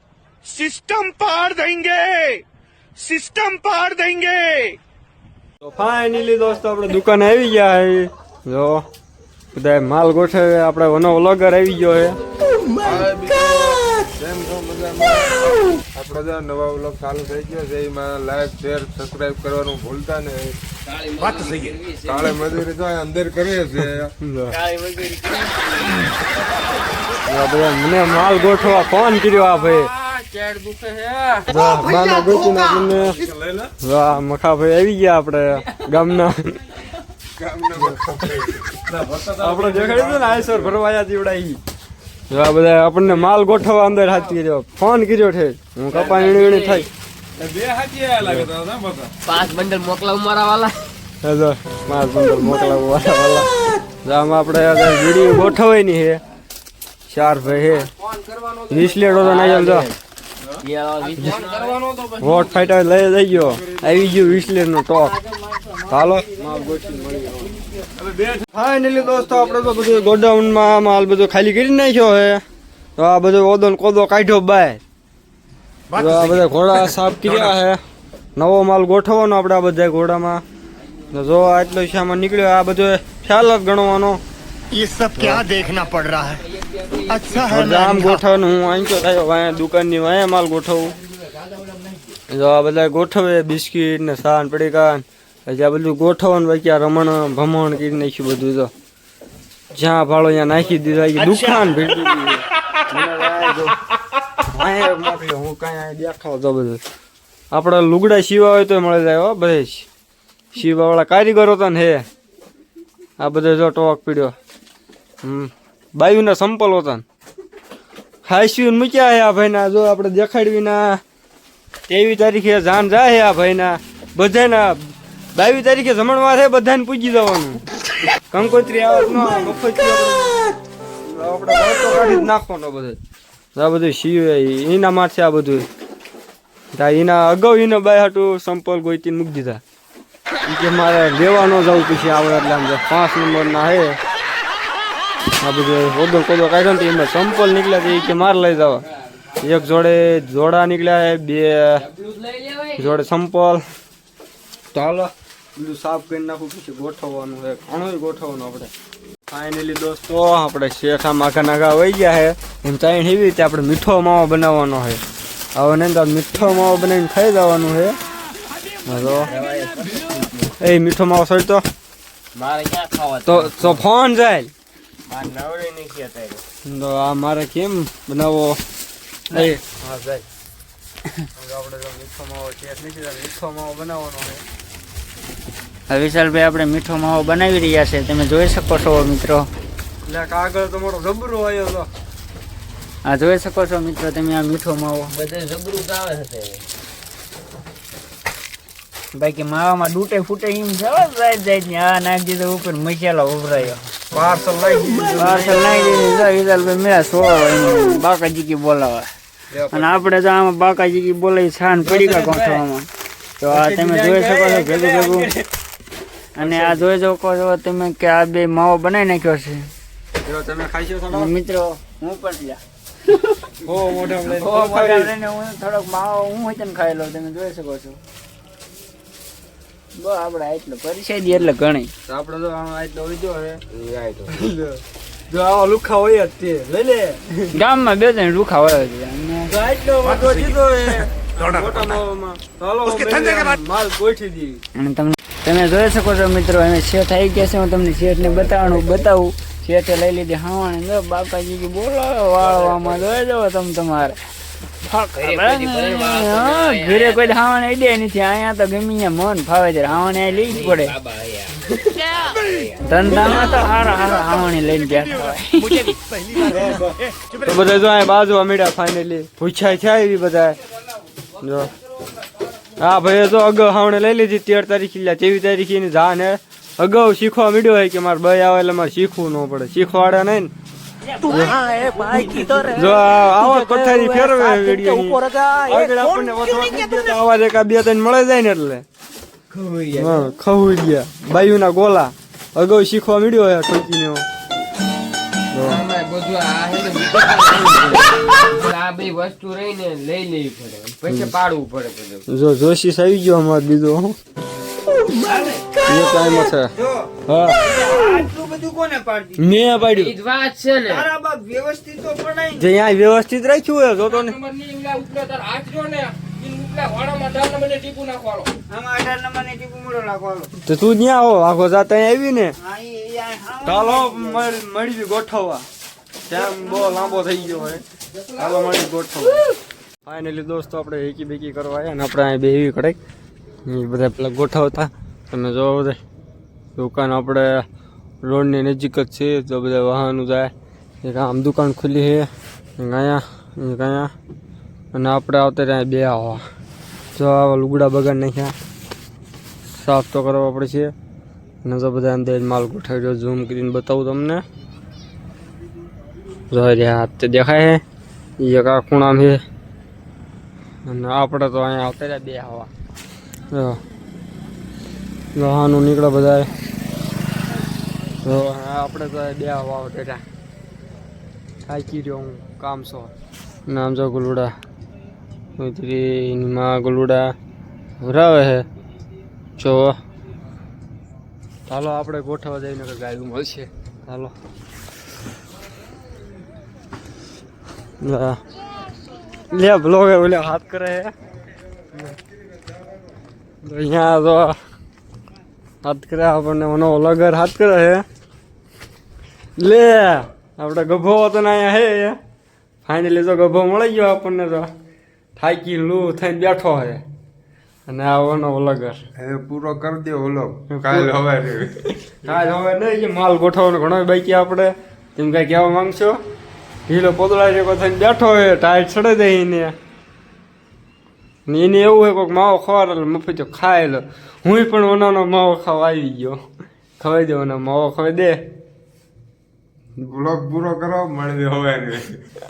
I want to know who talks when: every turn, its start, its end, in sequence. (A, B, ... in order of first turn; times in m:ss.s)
0:00.5-0:02.4 A
0:03.0-0:04.8 A
0:05.6-0:08.8 B
0:09.5-0:12.2 B
0:12.8-0:20.6 C
0:20.9-0:22.4 D
0:22.0-0:24.1 C
0:24.2-0:24.6 B
0:24.5-0:26.0 D
0:27.3-0:29.9 B
0:29.9-0:31.5 D
0:31.5-0:33.2 B
0:33.8-0:36.6 B
0:37.4-0:40.7 C
0:39.4-0:41.6 B
0:42.3-0:46.9 B
0:45.9-0:46.9 D
0:47.4-0:49.1 C
0:48.2-0:48.5 B
0:49.2-0:50.8 D
0:51.2-0:53.5 B
0:54.0-0:56.2 B
0:57.1-0:57.9 B
0:58.7-0:59.9 B
0:59.1-1:00.0 D
1:00.6-1:02.2 D
1:01.2-1:01.5 B
1:02.2-1:05.2 B
1:05.9-1:07.6 B
1:06.7-1:07.0 E
1:08.3-1:12.4 B
1:13.0-1:14.8 B
1:15.9-1:17.8 B
1:18.4-1:20.4 B
1:21.1-1:24.2 B
1:24.7-1:26.4 C
1:25.2-1:25.5 B
1:26.6-1:27.2 D
1:27.1-1:28.2 C
1:27.4-1:30.9 B
1:32.3-1:38.7 B
1:39.7-1:43.8 B
1:44.4-1:46.8 B
1:47.5-1:49.9 B
1:50.5-1:52.0 B
1:53.2-1:54.3 B
1:55.2-1:57.0 B
1:58.2-2:01.0 B
2:01.9-2:07.6 B
2:08.3-2:10.4 B
2:11.0-2:13.0 B
2:13.5-2:15.7 B
2:16.7-2:19.6 B
2:20.4-2:24.0 B
2:25.4-2:28.8 B
2:29.4-2:31.8 B
2:31.8-2:33.0 D
2:32.8-2:33.6 B
2:34.7-2:38.7 B
2:39.3-2:45.0 B
2:45.5-2:48.0 B
2:48.8-2:49.4 B
2:49.2-2:50.5 D
2:50.6-2:51.6 B
2:52.3-2:53.8 D
2:53.2-2:54.5 B
2:55.1-2:56.4 D
2:56.6-2:58.6 B
2:59.3-3:00.2 B
3:01.4-3:04.4 B
3:05.9-3:09.5 E
3:10.0-3:11.9 B
3:13.0-3:15.1 E
3:15.1-3:16.6 D
3:19.1-3:23.8 E
3:24.1-3:26.2 B
3:25.2-3:29.1 E
3:29.5-3:30.1 B
3:29.7-3:32.9 E
3:31.8-3:32.6 B
3:33.4-3:35.3 E
3:33.5-3:35.4 B
3:36.4-3:39.6 E
3:36.4-3:36.8 B
3:40.2-3:41.3 B
3:41.1-3:42.6 E
3:43.6-3:45.1 B
3:44.3-3:48.0 E
3:49.9-3:51.9 E
3:52.1-3:53.6 B
3:53.7-3:54.4 D
3:54.3-3:57.5 B
3:57.5-3:59.5 E
3:59.5-4:04.6 B
4:04.8-4:14.2 E
4:12.7-4:13.0 D
4:14.8-4:20.9 E
4:15.2-4:17.4 D
4:20.5-4:22.9 D
4:22.8-4:26.8 E
4:27.4-4:30.6 B
4:31.4-4:31.7 B
4:32.8-4:40.5 B
4:41.2-4:46.3 E
4:41.3-4:41.6 B
4:42.7-4:48.8 B
4:49.5-4:50.3 D
4:50.0-4:54.2 B
4:55.5-4:55.8 B
4:55.7-5:02.2 D
5:01.1-5:01.4 B
5:02.3-5:04.2 B
5:05.3-5:07.1 E
5:05.9-5:06.7 B
5:07.3-5:07.6 B
5:07.6-5:09.5 E
5:09.4-5:10.1 B
5:09.9-5:11.1 D
5:10.9-5:12.6 E
5:12.6-5:14.4 B
5:14.3-5:18.5 D
5:18.7-5:20.5 E
5:20.7-5:22.6 B
5:22.6-5:24.5 E
5:23.6-5:25.7 B
5:26.3-5:27.8 B
5:28.4-5:29.5 B
5:30.0-5:33.0 B
5:33.7-5:36.0 B
5:36.8-5:37.7 B
5:38.2-5:40.5 B
5:41.0-5:44.1 B
5:44.9-5:46.4 B
5:47.2-5:48.6 B
5:49.7-5:50.9 B
5:51.6-5:54.4 B
5:56.5-5:57.8 B
5:58.4-5:59.4 B
6:00.9-6:02.7 B
6:03.5-6:03.8 B
6:05.4-6:06.5 B
6:08.2-6:10.2 B
6:11.7-6:13.1 B
6:13.7-6:14.5 B
6:15.6-6:17.3 B
6:18.0-6:18.6 B
6:19.6-6:20.0 B
6:21.7-6:24.3 B
6:28.0-6:28.4 B
6:29.5-6:31.1 B
6:33.6-6:34.6 B
6:35.8-6:38.0 B
6:39.6-6:42.2 B
6:42.8-6:44.7 B
6:45.4-6:47.0 B
6:47.9-6:49.0 B
6:49.2-6:51.7 C
6:50.7-6:51.2 B
6:52.0-6:56.2 B
6:56.9-6:59.8 B
7:01.5-7:06.4 B
7:07.0-7:08.4 B
7:10.0-7:12.1 C